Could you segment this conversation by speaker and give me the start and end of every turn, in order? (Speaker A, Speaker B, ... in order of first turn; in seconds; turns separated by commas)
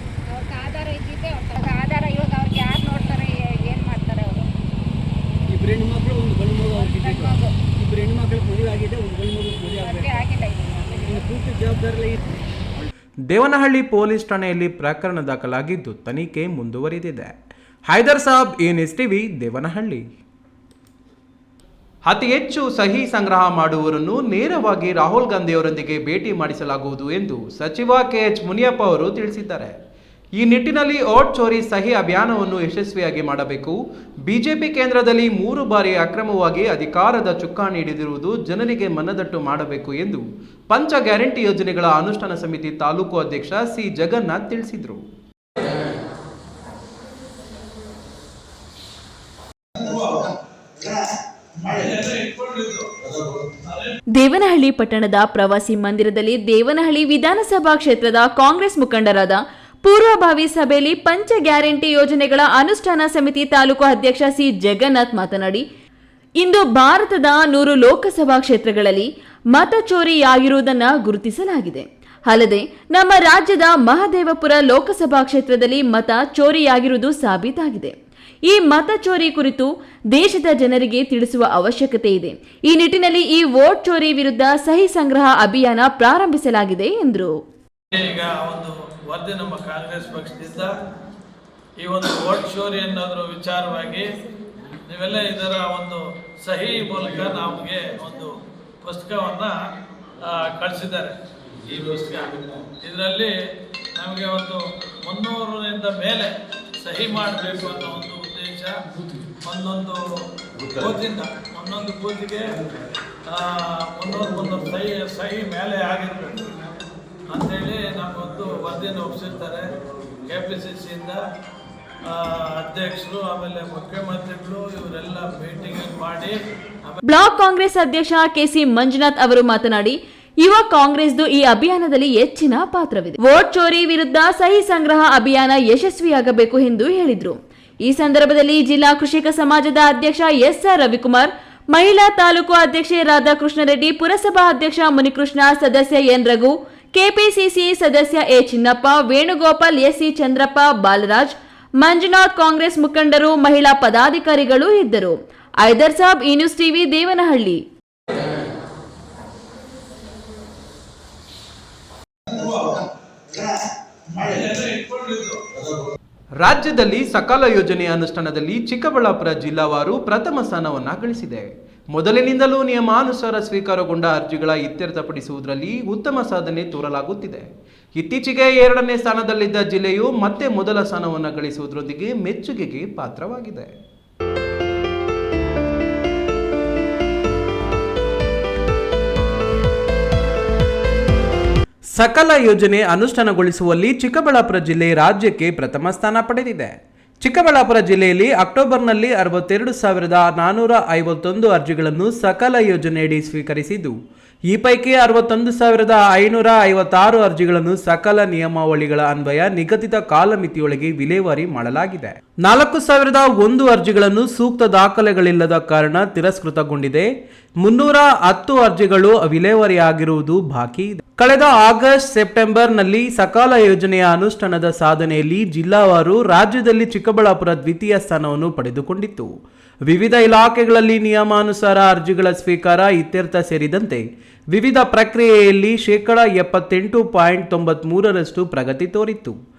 Speaker A: 0.3-4.5, Speaker B: 5.5-10.2, Speaker A: 6.7-7.5, Speaker A: 9.8-11.2, Speaker B: 11.0-12.2, Speaker C: 13.3-17.3, Speaker C: 17.9-20.1, Speaker C: 22.1-29.8, Speaker C: 30.4-45.0, Speaker D: 51.8-52.8, Speaker E: 54.2-65.6, Speaker E: 66.4-77.9, Speaker E: 78.5-87.3, Speaker D: 87.9-90.7, Speaker D: 91.8-94.1, Speaker D: 94.9-99.5, Speaker D: 100.3-101.1, Speaker D: 101.7-103.3, Speaker D: 104.0-106.3, Speaker D: 106.8-108.7, Speaker D: 109.4-110.0, Speaker D: 110.8-112.5, Speaker D: 113.3-116.4, Speaker D: 117.3-119.7, Speaker D: 120.3-121.2, Speaker D: 122.1-127.0, Speaker E: 127.0-157.6, Speaker C: 166.4-183.7, Speaker C: 191.9-203.9, Speaker C: 204.5-217.1, Speaker C: 217.6-229.3, Speaker C: 229.9-239.4